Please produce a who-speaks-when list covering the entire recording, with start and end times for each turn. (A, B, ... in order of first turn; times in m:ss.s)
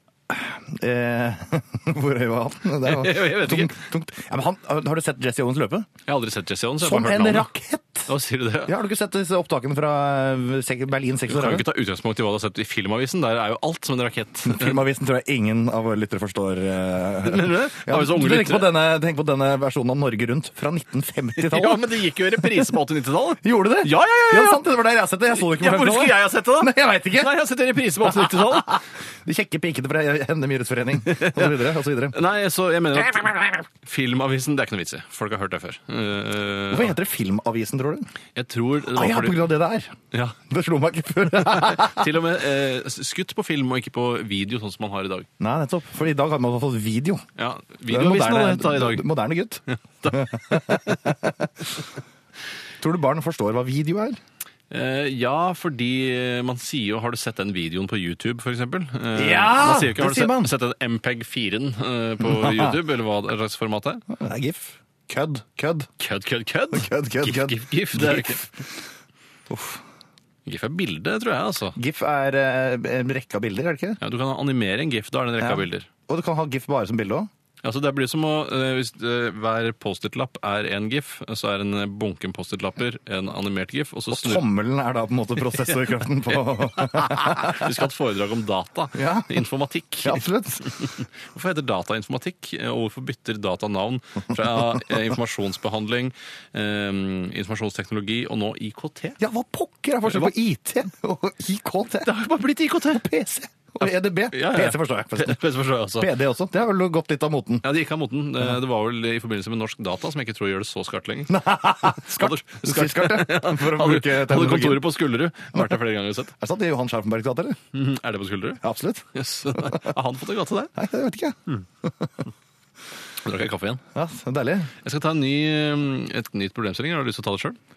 0:00.3-0:05.9 A
0:02.8-0:03.8 B
0:06.0-0:07.5 B
0:06.8-0:08.1 A
0:08.1-0:08.7 B
0:08.6-0:11.6 A
0:11.3-0:14.8 B
0:14.4-0:21.9 A
0:17.2-0:18.7 B
0:21.4-0:24.6 B
0:23.4-0:27.3 A
0:25.3-0:28.8 B
0:28.1-0:32.2 A
0:31.0-0:36.9 B
0:36.7-0:38.1 A
0:38.4-0:39.5 B
0:38.9-0:39.9 A
0:40.1-0:40.4 B
0:40.4-0:42.1 A
0:41.4-0:45.3 B
0:45.4-0:47.2 A
0:47.4-0:49.0 B
0:47.9-0:51.7 A
0:49.7-0:51.0 B
0:52.8-0:54.2 A
0:54.7-1:04.0 B
0:59.1-1:00.5 A
1:02.2-1:02.8 A
1:04.1-1:05.9 A
1:06.0-1:08.4 B
1:06.7-1:08.7 A
1:09.5-1:09.8 A
1:10.4-1:11.8 B
1:11.8-1:14.0 A
1:14.0-1:15.9 B
1:15.4-1:17.3 A
1:17.6-1:24.4 B
1:24.1-1:27.7 A
1:26.4-1:39.2 B
1:28.9-1:29.4 A
1:30.0-1:30.8 A
1:39.2-1:42.1 A
1:40.0-1:40.3 B
1:42.0-1:43.0 B
1:42.9-1:45.4 A
1:44.3-1:46.1 B
1:46.0-1:47.6 A
1:47.6-1:56.3 B
1:51.3-1:54.9 A
1:56.4-1:57.6 A
1:57.7-1:58.6 B
1:58.6-1:59.9 A
1:59.1-2:00.7 B
2:00.7-2:02.1 A
2:03.2-2:03.8 B
2:03.9-2:04.7 A
2:04.8-2:07.6 B